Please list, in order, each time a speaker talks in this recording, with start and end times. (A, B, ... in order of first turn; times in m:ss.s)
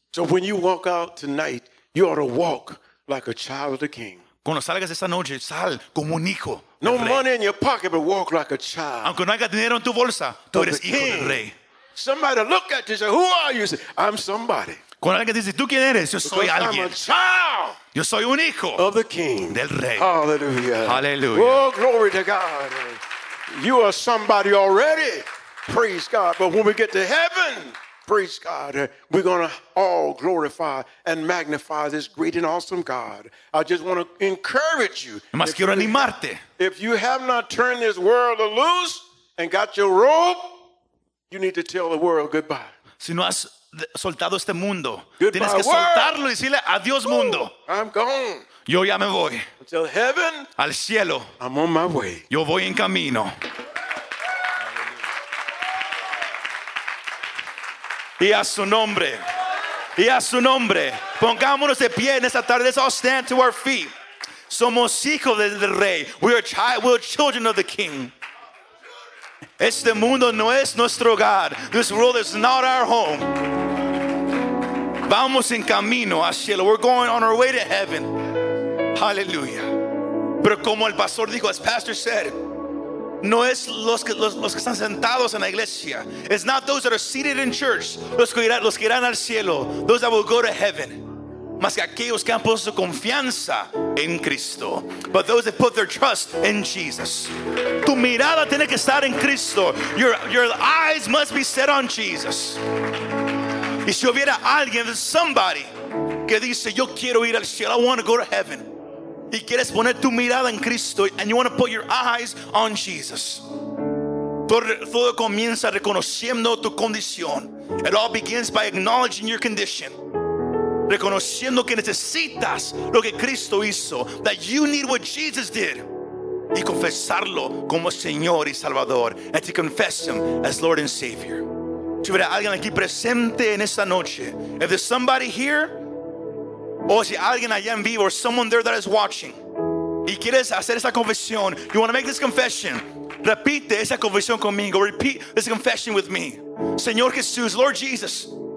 0:00.1-0:04.2 A
0:04.4-0:07.2 B
0:06.8-0:09.1 A
0:09.0-0:11.6 B
0:10.5-0:14.8 A
0:15.0-0:17.0 B
0:16.2-0:17.8 A
0:17.9-0:18.8 B
0:18.8-0:40.6 A
0:19.5-0:20.1 B
0:20.8-0:21.6 B
0:35.3-0:36.4 B
0:41.3-0:42.7 A
0:43.0-0:47.5 B
0:45.2-0:46.2 A
0:47.6-0:48.4 A
0:48.6-0:49.5 B
0:49.6-0:50.5 A
0:50.6-0:51.3 B
0:51.4-0:52.2 A
0:52.3-0:53.3 B
0:58.2-0:59.2 B
1:00.0-1:03.9 B
1:04.5-1:08.1 B
1:09.6-1:13.5 B
1:15.0-1:18.1 B
1:18.9-1:19.7 B
1:20.4-1:22.4 B
1:23.2-1:31.1 B
1:31.6-1:42.6 B
1:43.8-1:48.7 B
1:49.3-1:53.4 B
1:54.4-2:00.0 B
2:00.9-2:05.9 B
2:06.5-2:11.5 B
2:12.0-2:15.9 B
2:16.9-2:19.4 B
2:20.0-2:28.3 B